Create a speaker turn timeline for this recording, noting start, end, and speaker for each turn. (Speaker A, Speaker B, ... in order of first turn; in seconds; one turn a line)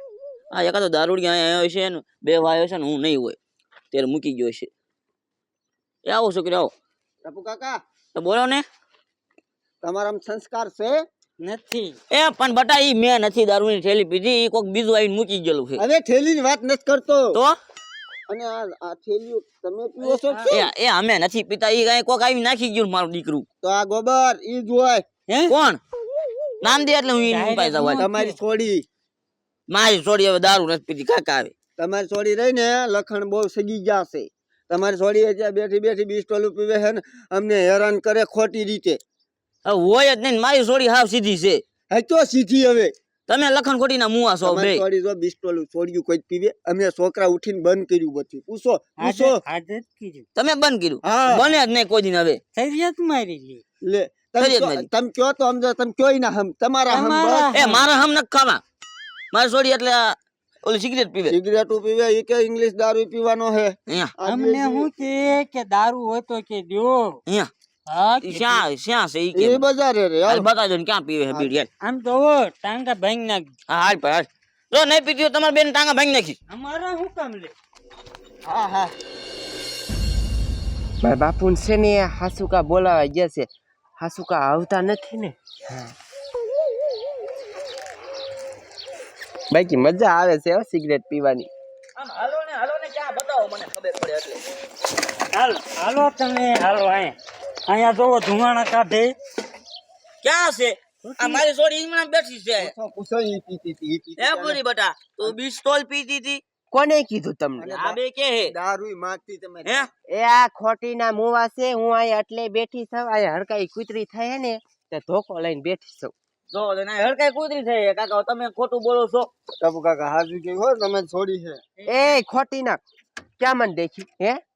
Speaker A: 0.5-3.4
Speaker A: 3.9-4.7
Speaker A: 6.0-6.7
Speaker B: 7.2-7.8
Speaker A: 8.1-8.6
Speaker B: 9.8-11.0
Speaker C: 11.4-12.0
Speaker A: 12.1-15.8
Speaker B: 15.8-17.4
Speaker B: 18.3-20.6
Speaker C: 20.0-20.6
Speaker A: 20.5-23.4
Speaker B: 23.6-25.0
Speaker C: 25.3-25.5
Speaker A: 25.5-25.8
Speaker A: 26.6-28.1
Speaker C: 27.3-28.4
Speaker B: 28.0-28.9
Speaker A: 29.7-31.5
Speaker B: 31.8-39.0
Speaker A: 39.6-41.6
Speaker B: 41.9-42.9
Speaker A: 43.3-44.8
Speaker B: 44.4-49.4
Speaker C: 49.0-50.3
Speaker A: 50.4-52.4
Speaker B: 51.0-51.5
Speaker C: 52.5-53.6
Speaker B: 53.8-57.6
Speaker A: 54.4-54.9
Speaker C: 56.9-57.8
Speaker A: 57.5-58.6
Speaker A: 59.3-61.3
Speaker B: 61.3-64.9
Speaker A: 63.9-64.1
Speaker C: 64.2-67.2
Speaker C: 67.9-68.7
Speaker A: 68.2-69.6
Speaker B: 69.3-70.5
Speaker A: 70.2-71.7
Speaker B: 71.3-71.5
Speaker C: 71.8-73.5
Speaker A: 73.7-76.4
Speaker C: 76.5-77.5
Speaker B: 78.5-78.9
Speaker D: 81.0-83.5
Speaker D: 84.0-85.9
Speaker D: 89.5-91.5
Speaker A: 92.0-94.5
Speaker C: 95.3-97.2
Speaker C: 97.7-99.1
Speaker A: 100.2-102.7
Speaker C: 101.0-101.5
Speaker B: 102.6-104.6
Speaker A: 104.2-106.4
Speaker D: 106.8-107.6
Speaker B: 107.6-109.9
Speaker A: 107.7-108.5
Speaker D: 110.2-116.1
Speaker A: 116.5-119.3
Speaker B: 119.6-121.6
Speaker C: 121.8-122.2
Speaker D: 121.9-122.8
Speaker D: 123.4-124.4